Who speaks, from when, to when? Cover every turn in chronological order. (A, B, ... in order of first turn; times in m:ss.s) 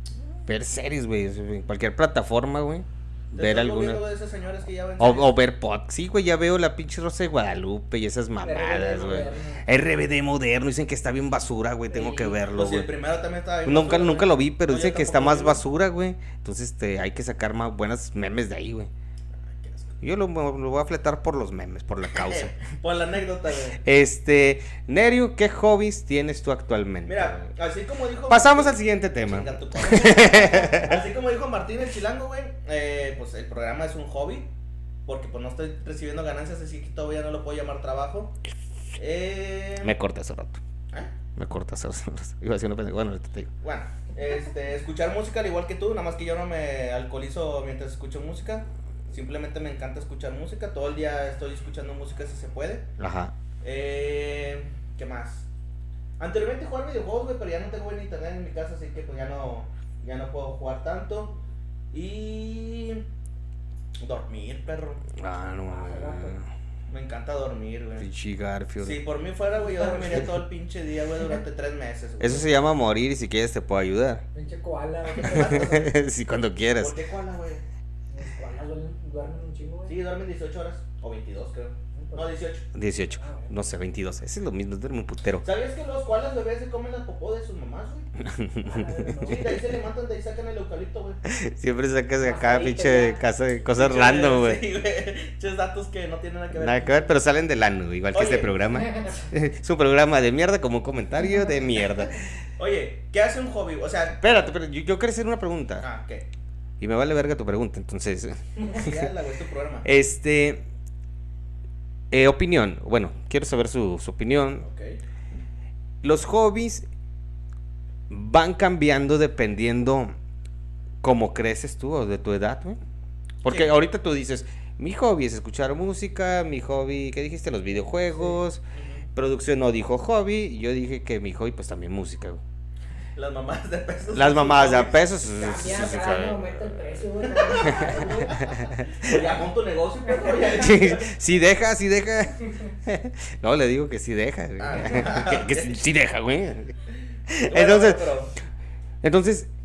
0:00.5-0:04.0 A
0:03.4-0:05.3 B
0:05.0-0:12.9 A
0:08.4-0:09.6 C
0:11.9-0:12.4 C
0:12.5-0:15.6 B
0:13.6-0:18.9 A
0:19.4-0:20.0 B
0:20.0-0:22.6 A
0:22.1-0:23.8 B
0:23.8-0:27.4 A
0:27.1-0:34.5 B
0:28.3-0:31.0 A
0:35.1-0:38.4 B
0:39.0-0:40.0 B
0:39.8-0:40.6 A
0:41.4-0:43.5 A
0:43.6-0:52.9 B
0:53.0-0:53.3 A
0:53.6-0:55.5 B
0:56.2-1:01.4 B
1:01.9-1:03.0 B
1:04.0-1:05.0 B
1:05.2-1:06.5 A
1:05.7-1:06.4 C
1:06.9-1:08.1 B
1:08.0-1:09.0 A
1:08.8-1:12.5 B
1:09.6-1:10.2 C
1:12.2-1:14.2 A
1:14.3-1:15.9 C
1:15.2-1:15.8 B
1:15.2-1:17.0 A
1:16.8-1:17.6 B
1:18.1-1:20.0 C
1:19.9-1:22.7 B
1:21.9-1:22.3 C
1:22.8-1:25.4 A
1:23.1-1:23.6 C
1:25.4-1:28.1 B
1:28.2-1:29.4 A
1:28.6-1:29.6 C
1:29.2-1:31.2 B
1:31.2-1:34.6 A
1:32.2-1:33.2 C
1:33.8-1:37.1 B
1:36.6-1:42.2 A
1:38.1-1:38.6 B
1:38.9-1:39.2 C
1:42.6-1:44.2 B
1:44.2-1:45.8 A
1:45.8-1:46.3 B
1:46.8-1:48.9 A
1:48.7-1:49.9 B
1:49.8-1:50.6 A
1:52.1-1:54.6 A
1:54.6-1:55.0 B
1:56.0-1:56.8 A
1:58.1-2:00.1 A
2:01.0-2:02.8 A
2:03.4-2:08.6 A
2:03.5-2:03.7 B
2:08.1-2:08.4 C
2:08.7-2:09.1 B
2:09.2-2:12.4 A
2:13.2-2:15.1 B
2:14.1-2:19.4 A
2:15.3-2:18.6 C
2:17.4-2:21.1 B
2:20.1-2:20.5 C
2:20.4-2:26.8 A
2:24.6-2:25.8 B
2:27.3-2:28.0 A
2:27.5-2:28.3 B
2:29.0-2:29.5 A